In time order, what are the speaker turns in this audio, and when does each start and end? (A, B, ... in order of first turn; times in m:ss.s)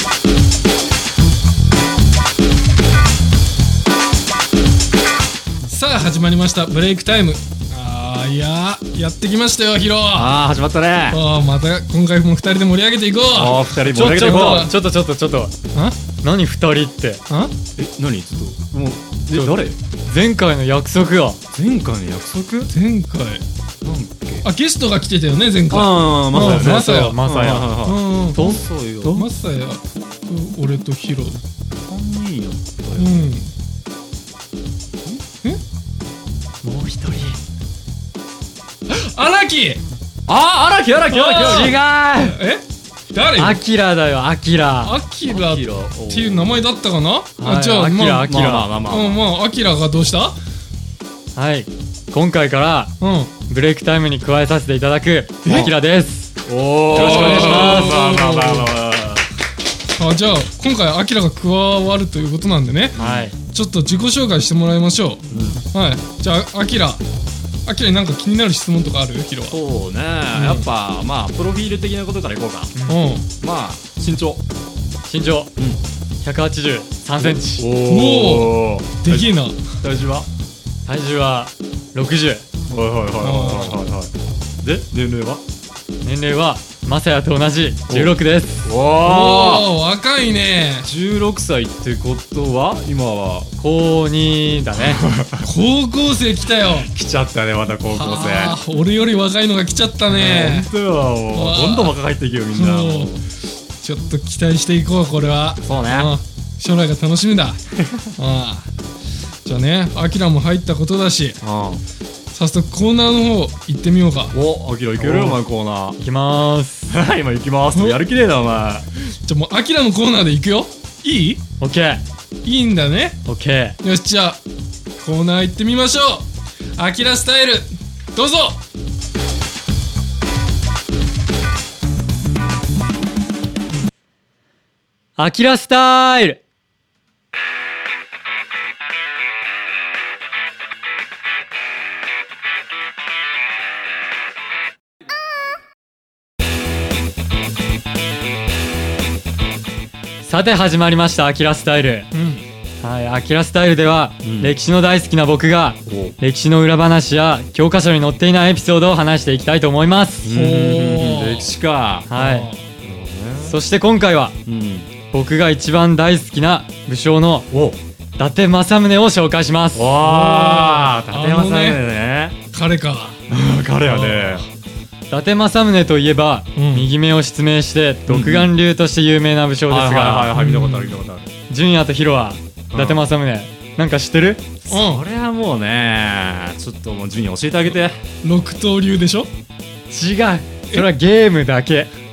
0:05.6-0:10.4 A
0:10.1-0:11.2 B
0:11.1-0:14.7 A
0:13.3-0:14.7 B
0:13.9-0:15.6 C
0:16.2-0:17.2 C
0:17.8-0:19.8 B
0:19.3-0:21.4 C
0:21.5-0:22.7 B
0:22.7-0:23.4 A
0:23.8-0:24.5 B
0:24.4-0:27.2 A
0:25.7-0:29.2 B
0:26.3-0:29.3 C
0:27.8-0:28.4 A
0:29.1-0:31.4 A
0:31.8-0:33.3 B
0:33.0-0:33.5 A
0:36.6-0:37.4 B
0:38.9-0:39.8 A
0:40.3-0:42.3 B
0:41.1-0:43.6 A
0:41.2-0:42.3 C
0:43.4-0:45.0 C
0:44.8-0:48.3 A
0:45.3-0:46.7 B
0:47.4-0:48.7 C
0:48.2-0:49.2 B
0:48.9-0:50.4 A
0:51.4-0:52.9 C
0:53.0-0:53.3 A
0:53.5-0:56.4 C
0:55.4-0:55.7 B
0:56.4-0:59.2 B
0:56.9-0:58.7 A
0:56.9-0:58.2 C
1:00.0-1:07.0 A
1:03.0-1:03.3 B
1:03.0-1:03.4 C
1:05.3-1:05.6 B
1:07.7-1:09.6 A
1:09.5-1:12.7 B
1:10.3-1:10.7 A
1:12.8-1:13.0 C
1:12.9-1:13.2 A
1:13.4-1:14.4 B
1:15.1-1:15.5 C
1:16.2-1:17.7 C
1:17.2-1:20.3 B
1:17.8-1:19.6 A
1:20.8-1:22.4 C
1:22.7-1:24.1 B
1:23.2-1:23.8 A
1:24.6-1:25.4 B
1:26.0-1:28.7 C
1:27.9-1:29.7 B
1:29.0-1:30.9 A
1:30.8-1:33.5 B
1:33.6-1:35.0 C
1:34.8-1:35.4 B
1:35.4-1:36.9 A
1:36.9-1:38.6 B
1:37.9-1:40.7 A
1:40.1-1:43.2 B
1:41.3-1:42.0 A
1:42.5-1:43.2 A
1:43.8-1:47.6 A
1:45.6-1:46.2 B
1:48.2-1:48.7 A
1:49.4-1:51.4 A
1:51.4-1:51.8 B
1:52.3-1:54.3 A
1:54.3-1:56.0 B
1:55.0-1:55.4 C
1:56.0-1:56.9 C
1:56.9-1:58.8 B
1:57.8-1:58.0 A
1:59.2-2:01.4 A
2:01.6-2:02.0 C
2:02.4-2:03.2 A
2:03.3-2:03.8 C
2:03.8-2:04.4 A
2:05.0-2:08.6 A
2:15.2-2:16.4 C
2:30.2-2:32.1 C
2:32.1-2:32.5 A
2:32.8-2:40.3 C
2:34.2-2:34.6 B
2:35.9-2:36.2 B
2:40.2-2:42.1 B
2:40.3-2:41.5 A
2:42.1-2:42.5 C
2:42.1-2:42.7 A
2:42.8-2:43.6 B
2:43.4-2:44.4 C
2:44.5-2:44.9 B
2:45.1-2:47.5 C
2:47.5-2:47.8 B
2:48.2-2:49.9 C
2:49.7-2:52.4 B
2:50.0-2:51.8 A
2:52.5-2:53.2 A
2:53.3-2:54.4 B
2:53.8-2:54.5 A
2:55.1-3:00.3 C
2:56.6-2:56.9 A
2:58.1-2:58.5 B
2:59.7-3:01.3 B
3:00.3-3:01.0 A
3:01.5-3:04.5 C
3:02.7-3:03.0 B
3:04.7-3:08.0 B
3:04.7-3:05.0 A
3:08.2-3:09.3 A
3:09.9-3:11.9 C